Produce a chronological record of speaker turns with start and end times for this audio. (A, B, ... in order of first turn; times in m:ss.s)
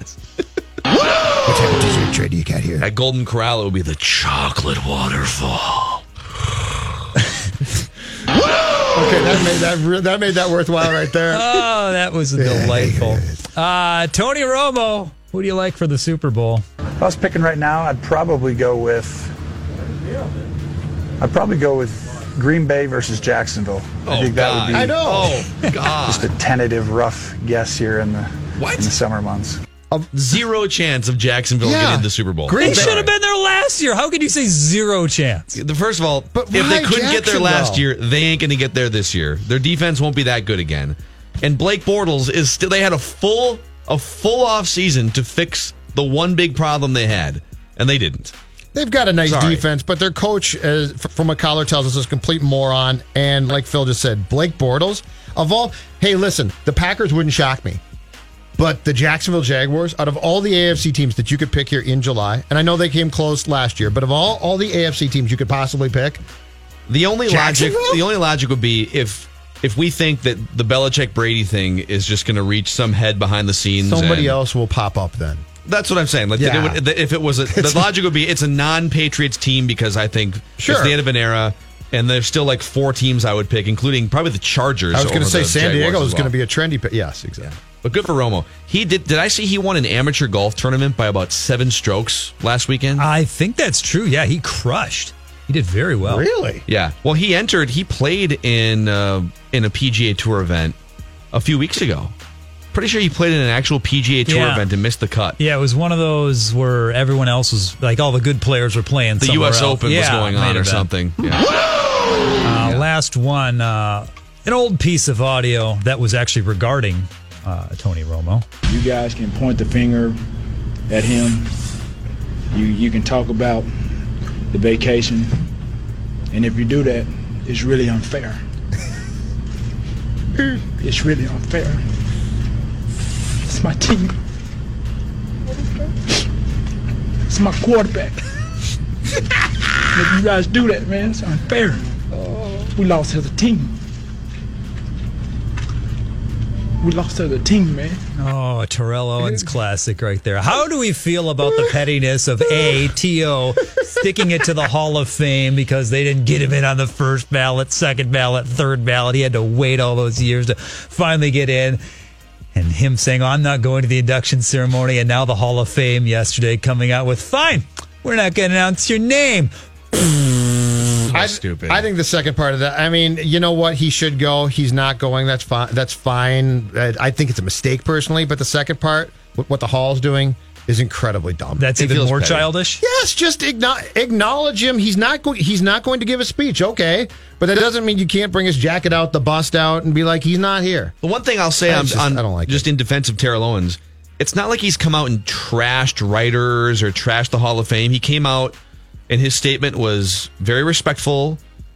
0:01.4-0:02.8 A
0:02.8-0:06.0 B
0:08.9-0:11.6 A
0:11.3-0:16.6 C
0:12.4-0:13.4 A
0:17.0-0:19.3 D
0:21.2-0:25.0 D
0:24.0-0:26.3 B
0:24.7-0:25.4 A
0:26.0-0:29.6 D
0:28.6-0:28.9 B
0:30.1-0:33.1 B
0:31.6-0:33.1 A
0:32.5-0:35.6 C
0:35.6-0:48.3 B
0:36.3-0:37.8 A
0:48.7-0:57.8 A
0:49.2-0:49.6 B
0:58.6-1:06.2 A
1:06.9-1:14.4 B
1:07.3-1:08.0 A
1:13.8-1:15.4 A
1:15.6-1:26.3 B
1:16.4-1:16.8 A
1:17.5-1:17.9 A
1:20.6-1:21.0 A
1:24.9-1:27.5 A
1:27.4-1:33.0 B
1:33.0-1:36.2 C
1:36.0-1:36.6 A
1:36.7-1:40.8 B
1:41.3-1:42.1 B
1:42.7-1:45.4 B
1:44.2-1:44.6 C
1:45.4-1:50.9 C
1:49.2-1:51.5 B
1:52.4-1:58.4 C
1:58.7-2:00.2 E
2:00.9-2:01.5 E
2:02.5-2:03.7 E
2:04.5-2:05.3 E
2:06.3-2:08.4 E
2:10.8-2:11.8 E
2:13.4-2:14.2 E
2:17.3-2:18.2 E
2:19.9-2:21.8 E
2:22.7-2:23.7 E
2:26.8-2:28.0 E
2:28.2-2:41.8 C
2:42.5-2:50.0 C
2:51.1-2:51.8 B
2:51.1-3:01.6 A
3:01.6-3:02.8 C
3:01.8-3:02.5 B
3:02.8-3:10.9 A
3:11.0-3:18.6 B
3:11.6-3:12.6 A
3:19.1-3:21.4 B